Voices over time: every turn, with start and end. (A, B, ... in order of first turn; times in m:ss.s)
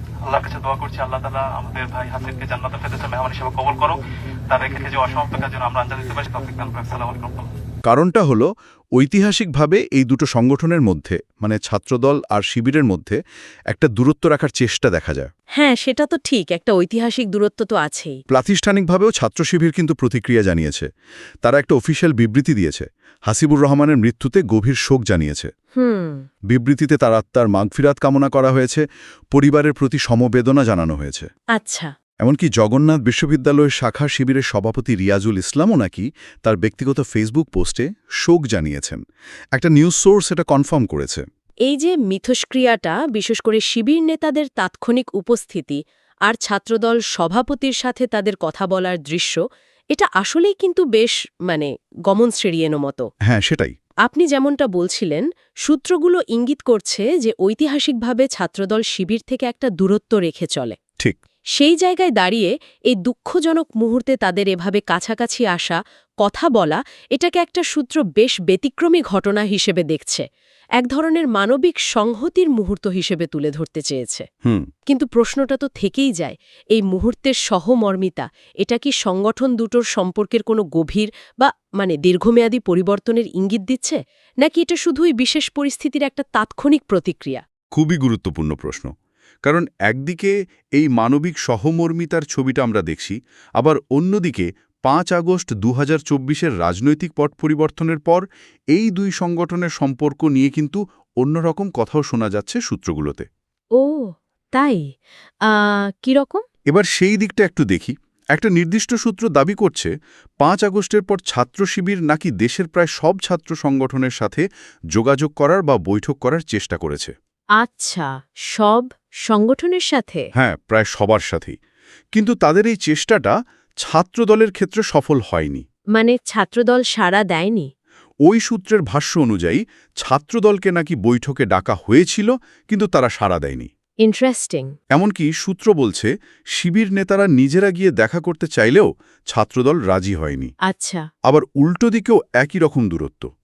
0:00.2-0:07.5 A
0:07.8-0:13.2 B
0:13.7-0:15.3 B
0:15.6-0:18.2 C
0:18.3-0:20.9 B
0:21.4-0:25.5 B
0:25.8-0:26.2 C
0:26.5-0:31.3 B
0:31.6-0:31.9 C
0:32.2-0:39.0 B
0:39.5-0:41.2 B
0:41.7-0:49.4 C
0:49.9-0:53.1 C
0:53.2-0:53.7 B
0:54.0-1:00.8 C
1:01.6-1:10.2 C
1:10.8-1:14.2 C
1:14.9-1:27.4 C
1:27.7-1:28.9 B
1:29.4-1:43.3 B
1:43.8-1:44.8 C
1:45.5-1:46.4 C
1:46.7-1:49.9 B
1:50.4-1:57.1 B
1:57.6-2:00.3 C
2:00.4-2:01.6 B
2:02.1-2:05.6 B
2:06.0-2:07.7 C
2:08.3-2:13.7 B
2:14.0-2:14.7 C
2:14.9-2:20.5 B
2:20.7-2:21.0 C
2:21.3-2:23.3 B